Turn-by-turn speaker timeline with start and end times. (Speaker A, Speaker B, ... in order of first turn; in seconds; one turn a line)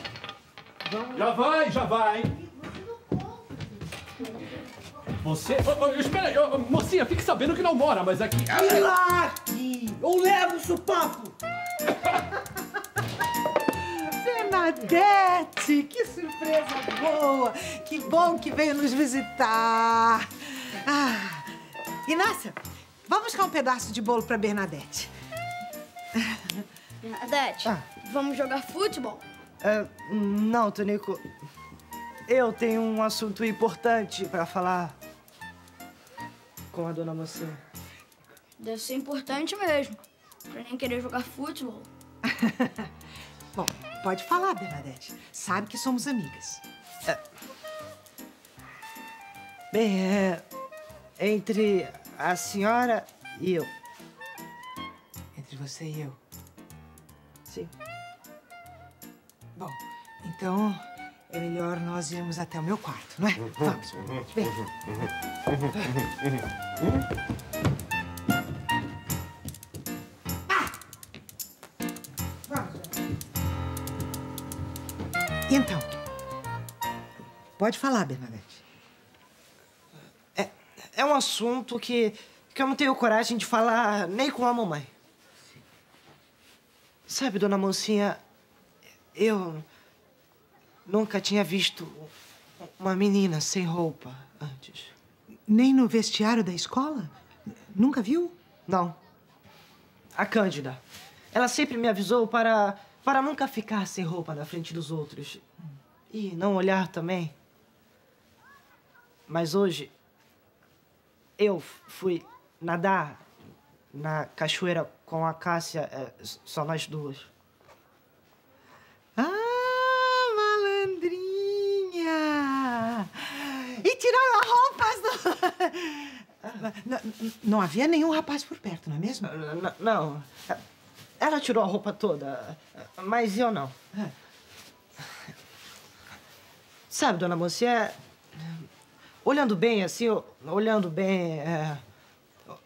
Speaker A: 0.9-2.3
Speaker B: 2.4-3.5
Speaker A: 5.2-8.9
Speaker C: 8.5-11.3
Speaker B: 9.3-10.0
Speaker B: 13.8-25.1
Speaker B: 26.1-26.6
Speaker D: 27.0-29.2
Speaker C: 29.6-31.2
Speaker C: 32.3-35.0
Speaker C: 36.7-37.6
Speaker D: 38.6-40.0
Speaker D: 40.5-41.9
Speaker B: 42.2-42.9
Speaker B: 43.5-46.6
Speaker C: 49.7-50.4
Speaker C: 51.2-53.7
Speaker B: 55.3-56.2
Speaker B: 59.5-64.5
Speaker B: 72.5-72.9
Speaker B: 75.5-75.9
Speaker B: 77.6-78.6
Speaker C: 80.3-84.9
Speaker C: 87.1-88.2
Speaker C: 89.1-89.7
Speaker C: 90.8-92.1
Speaker C: 92.6-94.9
Speaker B: 95.5-97.1
Speaker B: 97.7-98.3
Speaker C: 98.7-99.0
Speaker C: 100.1-100.8
Speaker C: 101.3-105.4
Speaker C: 106.1-107.3
Speaker C: 109.3-109.9
Speaker C: 111.4-113.2
Speaker C: 113.9-117.3
Speaker B: 119.2-129.3
Speaker C: 129.2-130.6
Speaker C: 131.2-133.8
Speaker C: 136.9-138.6
Speaker C: 139.2-141.8